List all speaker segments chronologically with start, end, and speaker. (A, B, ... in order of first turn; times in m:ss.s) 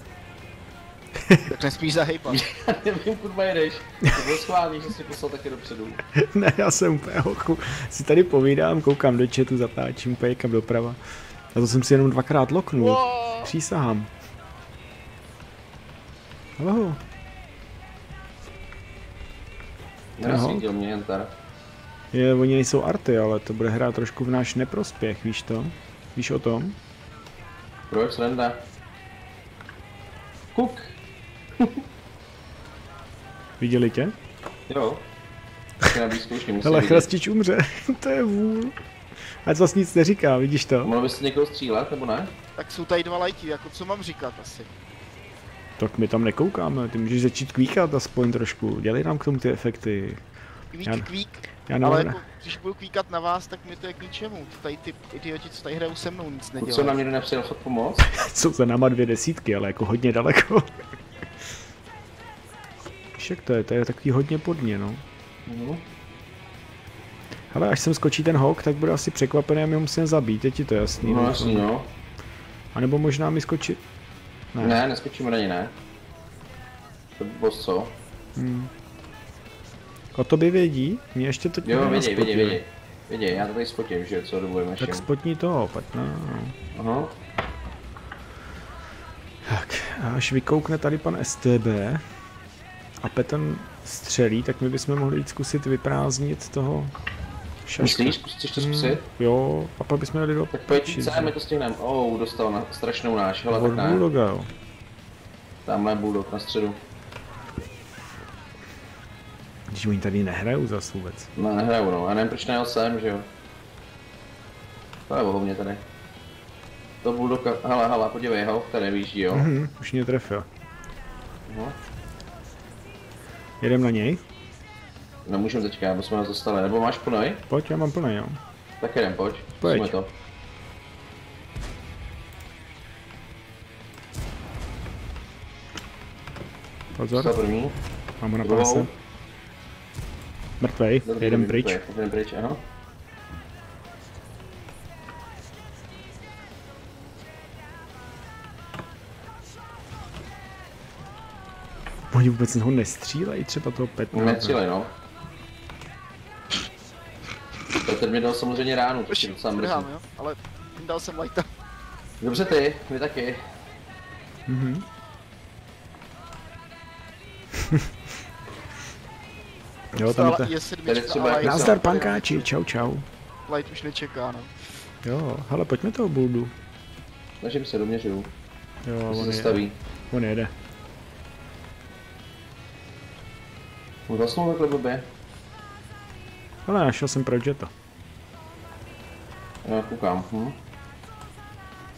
0:01.4-0:02.4 A
0:02.3-0:06.0 B
0:06.1-0:11.0 C
0:11.5-0:14.1 C
0:12.8-0:13.5 A
0:16.6-0:17.0 C
0:20.2-0:21.3 B
0:20.2-0:20.7 C
0:22.1-0:26.8 C
0:27.9-0:28.6 B
0:30.5-0:30.9 B
0:31.6-0:31.8 B
0:33.6-0:34.1 C
0:34.7-0:35.0 B
0:35.8-0:37.1 B
0:36.6-0:38.8 C
0:39.3-0:40.9 C
0:40.8-0:42.3 B
0:42.6-0:44.7 A
0:45.8-0:50.2 C
0:50.7-0:57.0 A
0:51.6-0:52.2 C
0:56.6-0:58.1 B
0:58.1-1:00.8 C
1:03.2-1:05.0 C
1:05.4-1:05.8 B
1:07.5-1:11.7 C
1:11.0-1:11.9 B
1:12.7-1:13.8 C
1:14.5-1:14.8 C
1:14.6-1:15.7 B
1:17.2-1:17.9 B
1:18.4-1:18.7 C
1:20.1-1:22.6 C
1:21.6-1:25.0 B
1:24.8-1:26.6 C
1:26.7-1:27.1 B
1:29.4-1:32.0 C
1:33.0-1:36.9 C
1:37.6-1:41.3 C
1:37.8-1:39.0 B
1:40.5-1:44.0 B
1:43.5-1:44.5 C
1:45.6-1:46.8 B
1:49.7-1:51.3 C
1:51.4-1:53.3 B
1:55.1-1:55.8 B
1:57.0-1:59.5 B
1:59.3-2:00.5 C
2:01.4-2:01.8 B
2:03.6-2:04.2 C
2:05.2-2:07.4 B
2:07.5-2:08.4 C
2:08.8-2:10.1 B
2:09.6-2:09.9 C
2:17.0-2:17.3 C
2:17.1-2:17.8 B
2:18.2-2:18.9 C
2:18.4-2:18.9 B
2:20.6-2:21.8 C
2:21.0-2:22.6 B
2:32.1-2:34.6 C
2:34.1-2:34.9 B
2:37.8-2:39.9 B
2:39.1-2:41.5 A
2:42.2-2:43.5 B
2:44.5-2:44.8 C
2:49.9-2:50.5 C
2:50.0-2:52.1 A
2:50.8-2:52.0 B
2:51.4-2:53.0 C
2:53.5-2:54.5 A
2:55.0-2:56.5 C
2:57.4-2:58.3 B
2:58.8-3:00.5 C
2:59.1-2:59.7 B
3:04.1-3:05.1 B
3:06.6-3:07.7 C
3:09.6-3:10.6 B